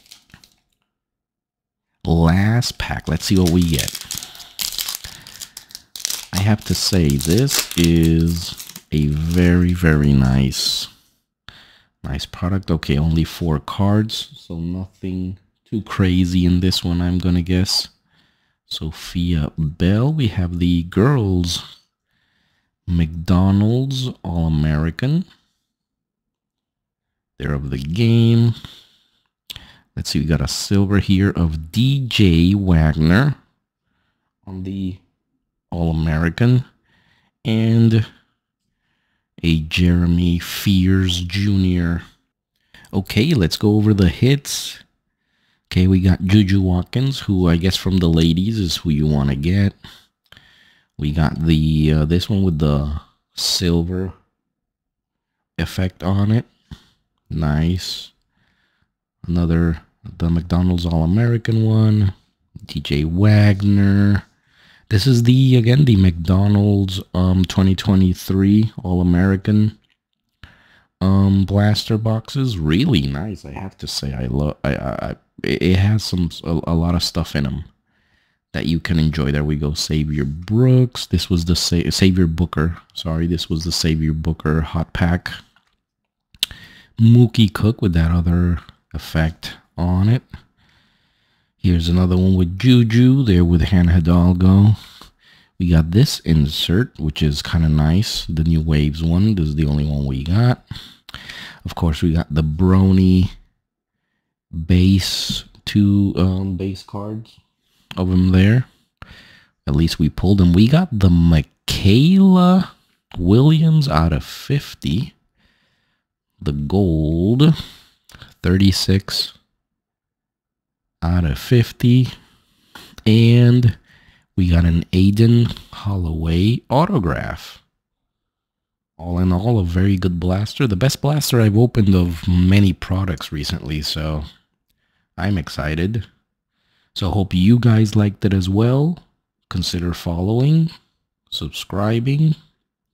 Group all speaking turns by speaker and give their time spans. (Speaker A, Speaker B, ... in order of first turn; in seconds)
Speaker A: 2.0-4.0, 6.3-10.9, 12.0-17.9, 18.7-21.6, 22.9-25.3, 27.4-28.6, 29.9-33.4, 34.5-35.0, 35.7-36.6, 37.4-38.0, 39.4-42.0, 42.9-44.8, 45.7-49.8, 51.0-54.1, 55.6-56.5, 57.3-58.1, 59.2-62.1, 62.7-64.2, 64.9-69.8, 71.0-77.7, 78.5-85.4, 87.0-90.2, 91.6-94.8, 95.6-100.6, 101.6-103.3, 104.5-107.4, 108.0-108.7, 109.7-115.1, 116.4-117.5, 118.4-119.3, 121.0-122.1, 123.1-123.8, 124.4-127.6, 129.0-134.2, 135.2-136.1, 136.9-140.7, 141.3-142.4